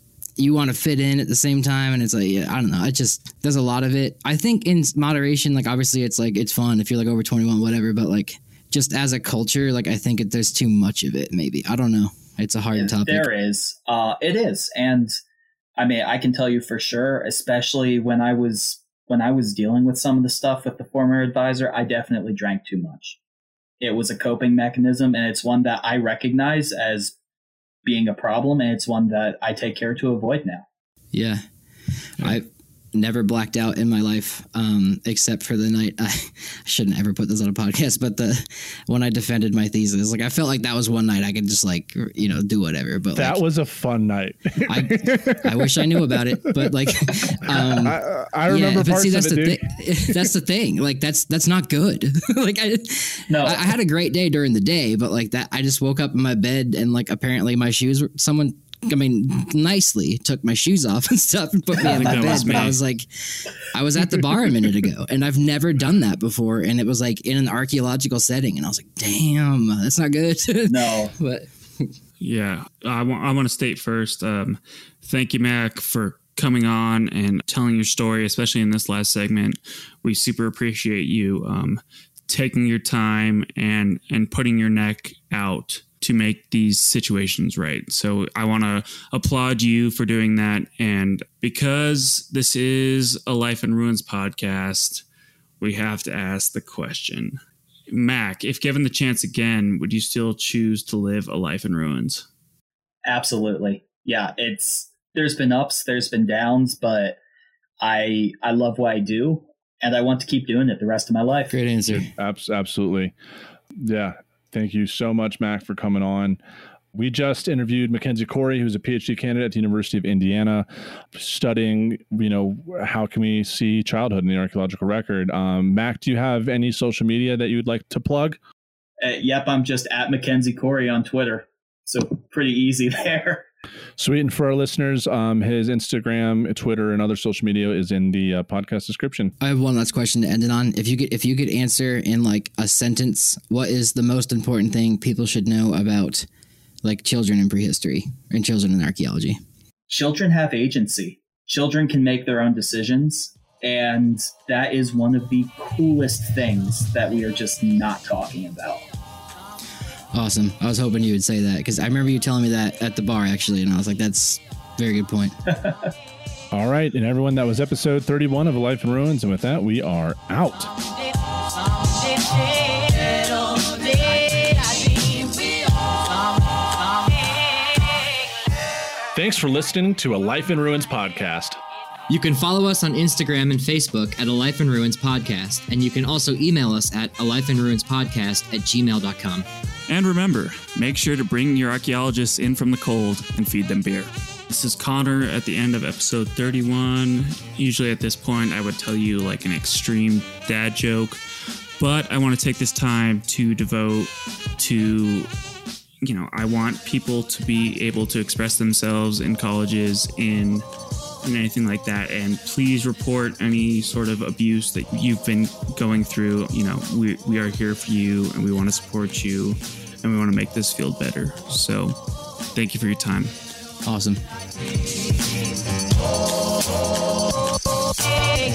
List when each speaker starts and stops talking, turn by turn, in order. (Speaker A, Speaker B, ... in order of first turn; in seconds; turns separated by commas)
Speaker A: 0.4-13.3, Speaker B: 12.7-15.2, Speaker B: 15.8-23.2, Speaker B: 23.8-27.1, Speaker B: 27.8-30.6, Speaker A: 31.1-31.4, Speaker A: 32.2-43.4, Speaker C: 43.1-50.3, Speaker A: 44.6-63.1, Speaker B: 53.3-53.8, Speaker B: 61.8-62.8, Speaker D: 61.8-62.8, Speaker A: 63.7-71.9, Speaker B: 70.7-71.1, Speaker D: 72.2-95.0, Speaker D: 95.6-102.2, Speaker B: 103.0-107.2, Speaker B: 107.8-111.5, Speaker A: 111.5-112.1, Speaker C: 111.9-113.1, Speaker C: 113.8-116.4, Speaker C: 116.9-128.4, Speaker B: 129.0-133.4, Speaker C: 134.0-139.3, Speaker A: 139.4-146.3, Speaker A: 146.8-149.4, Speaker B: 149.9-158.8, Speaker A: 160.1-165.3, Speaker B: 165.5-165.9, Speaker C: 166.5-170.7, Speaker C: 179.1-181.6, Speaker A: 182.1-189.4, Speaker D: 189.9-201.2, Speaker D: 201.8-205.3, Speaker D: 206.0-210.7, Speaker D: 211.2-222.0, Speaker D: 222.5-223.3, Speaker A: 223.8-224.2